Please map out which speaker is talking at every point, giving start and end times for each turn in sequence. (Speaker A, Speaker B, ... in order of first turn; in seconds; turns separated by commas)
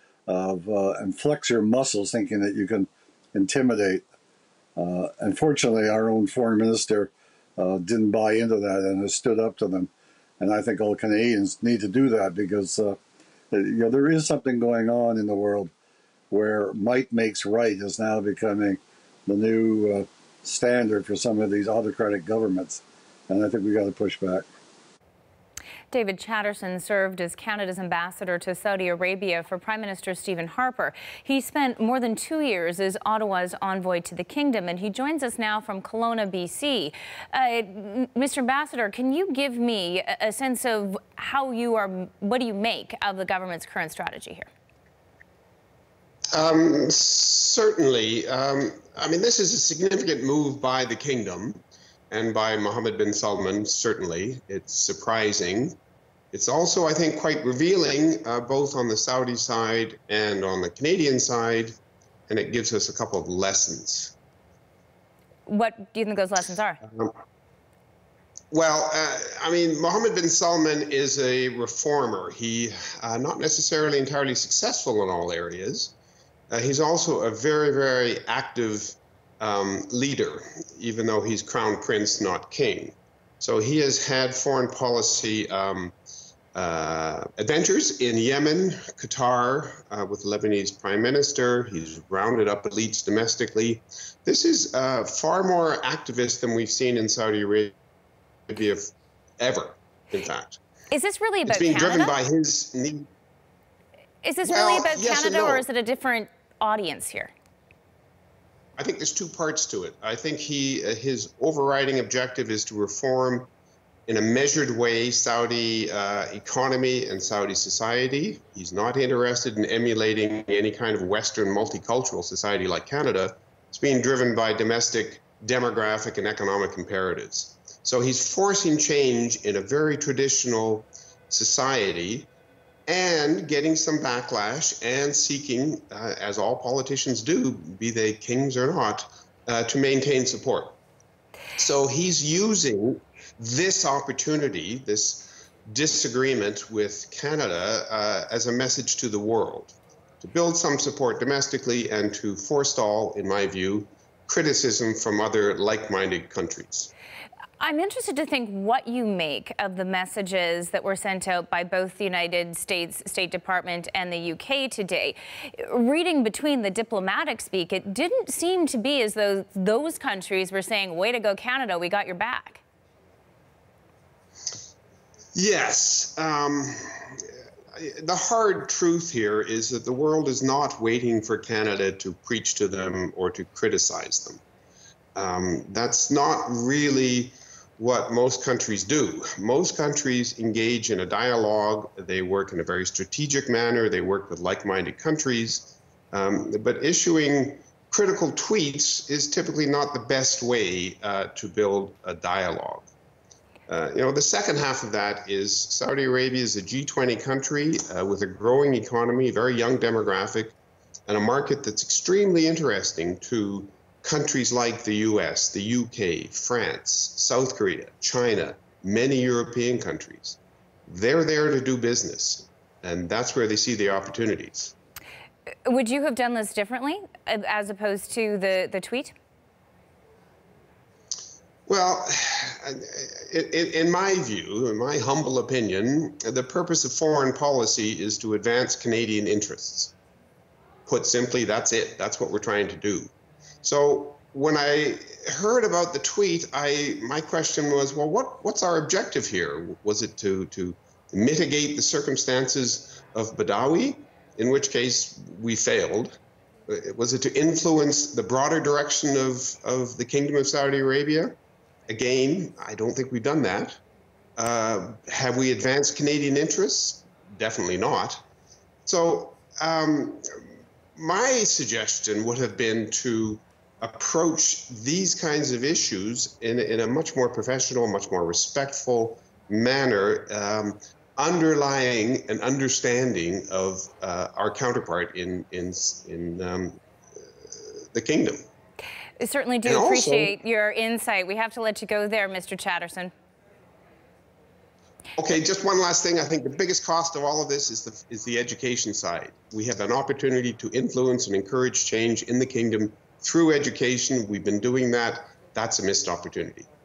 Speaker A: 0.3-4.0, Speaker A: 4.8-13.0, Speaker A: 13.5-15.7, Speaker A: 16.3-24.5, Speaker B: 25.9-44.5, Speaker C: 46.3-55.8, Speaker C: 56.3-61.8, Speaker C: 62.3-64.2, Speaker B: 65.5-66.8, Speaker C: 66.8-67.1, Speaker C: 68.5-75.9, Speaker C: 76.5-85.9, Speaker C: 86.5-97.7, Speaker C: 98.5-100.6, Speaker B: 100.9-102.2, Speaker C: 101.5-103.1, Speaker B: 104.2-107.3, Speaker C: 104.4-105.7, Speaker C: 108.8-113.5, Speaker C: 114.1-132.3, Speaker C: 132.9-140.8, Speaker C: 141.6-156.9, Speaker B: 157.6-172.6, Speaker C: 175.3-177.2, Speaker C: 177.8-184.4, Speaker C: 185.2-202.9, Speaker C: 203.7-224.7, Speaker B: 225.7-229.1, Speaker C: 231.7-239.9, Speaker C: 240.9-261.4, Speaker C: 261.9-263.8, Speaker C: 264.4-268.2, Speaker C: 268.9-270.2, Speaker C: 271.0-286.8, Speaker C: 287.9-288.5, Speaker B: 289.2-293.1, Speaker C: 289.6-290.3, Speaker C: 295.2-306.7